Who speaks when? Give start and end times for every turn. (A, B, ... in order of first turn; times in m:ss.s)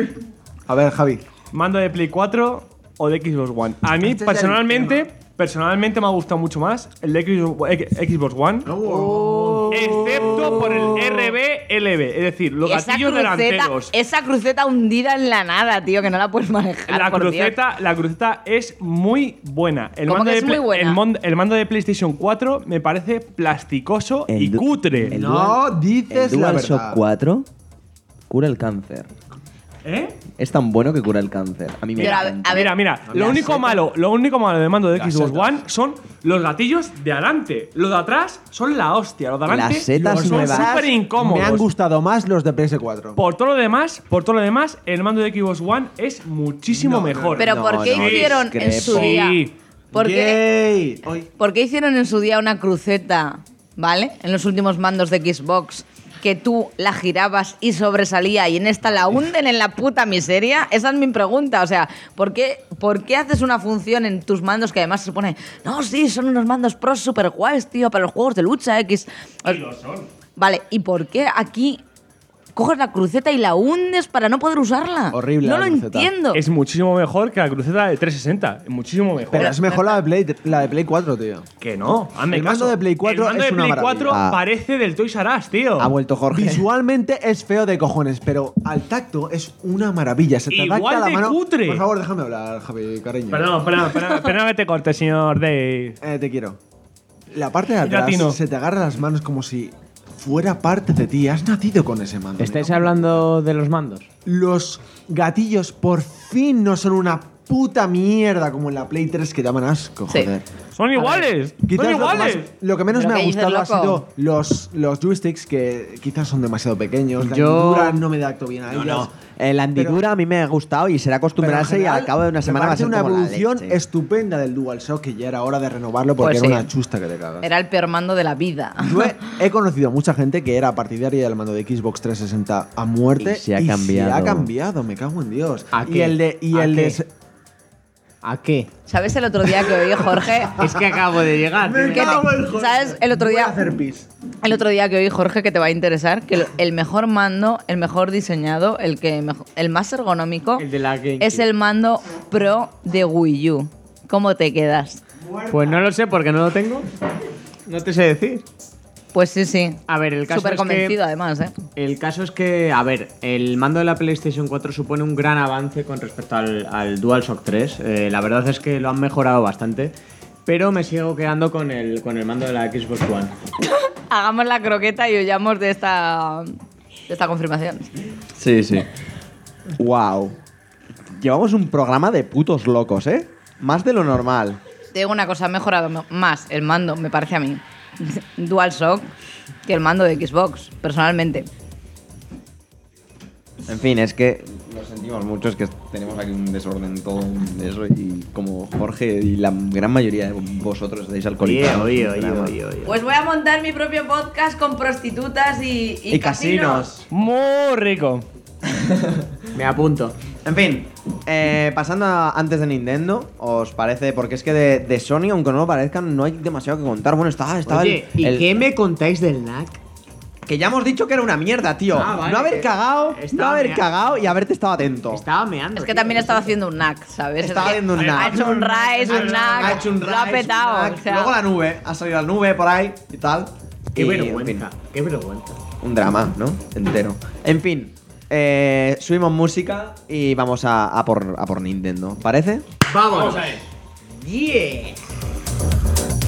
0:00.7-0:01.2 A
0:01.5-0:08.7 B
0:04.0-0:05.1 A
0:08.6-0:11.1 A
0:08.9-0:09.7 C
0:09.7-0:13.9 B
0:12.6-0:17.6 C
0:16.9-0:25.2 B
0:20.1-0:21.0 C
0:24.3-0:27.5 D
0:25.1-0:27.0 A
0:28.3-0:29.1 D
0:29.8-0:30.2 B
0:30.4-0:32.7 D
0:32.0-0:33.7 C
0:32.0-0:41.7 B
0:33.1-0:33.4 A
0:34.9-0:35.6 A
0:39.4-0:40.7 D
0:39.9-0:43.2 A
0:43.2-0:49.5 B
0:46.7-0:47.4 A
0:47.4-0:49.4 C
0:47.4-0:49.3 D
0:49.9-0:51.3 A
0:49.9-0:50.4 C
0:51.4-1:09.6 C
1:09.4-1:10.1 B
1:10.4-1:11.8 C
1:12.5-1:16.4 C
1:15.1-1:16.1 A
1:16.3-1:19.6 B
1:19.3-1:21.5 A
1:19.3-1:20.0 C
1:21.6-1:25.9 B
1:22.3-1:24.2 A
1:24.1-1:24.4 D
1:25.8-1:26.6 D
1:26.3-1:33.7 A
1:30.5-1:31.8 B
1:33.3-1:36.0 B
1:36.0-1:36.6 A
1:37.3-1:43.2 A
1:37.8-1:38.4 B
1:42.4-1:44.1 E
1:44.2-1:50.4 A
1:50.7-1:52.5 B
1:51.6-1:59.1 A
1:52.9-1:54.0 C
1:57.2-1:58.0 E
1:58.7-2:03.8 D
1:59.7-2:00.0 A
2:01.4-2:07.5 A
2:06.2-2:06.7 C
2:07.4-2:09.1 C
2:08.8-2:17.1 A
2:13.2-2:14.5 D
2:15.7-2:17.0 E
2:18.2-2:18.7 E
2:18.9-2:20.6 C
2:20.5-2:22.3 E
2:21.6-2:24.1 A
2:21.9-2:23.6 C
2:24.4-2:30.6 C
2:30.6-2:31.5 E
2:31.2-2:35.0 C
2:35.2-2:35.8 A
2:35.5-2:36.8 E
2:37.6-2:38.4 E
2:39.1-2:41.6 C
2:39.9-2:41.0 E
2:41.8-2:49.9 E
2:50.4-2:53.3 E
2:53.6-2:56.5 C
2:57.1-2:57.9 C
2:58.3-2:58.9 D
2:59.8-3:00.4 D
3:01.1-3:04.6 D
3:04.9-3:09.1 C
3:09.6-3:11.5 C
3:13.6-3:22.5 D
3:21.4-3:23.0 E
3:22.8-3:26.9 C
3:26.1-3:27.0 D
3:27.1-3:28.2 B
3:28.8-3:29.2 D
3:29.6-3:30.2 E
3:30.4-3:38.5 D
3:37.6-3:39.8 E
3:40.4-3:45.2 D
3:41.9-3:43.9 E
3:45.0-3:46.6 E
3:45.7-3:51.3 C
3:47.4-3:54.6 D
3:47.9-3:49.8 B
3:49.2-3:49.8 E
3:53.9-3:55.6 E
3:55.8-4:02.6 D
4:02.8-4:05.0 E
4:03.1-4:03.6 B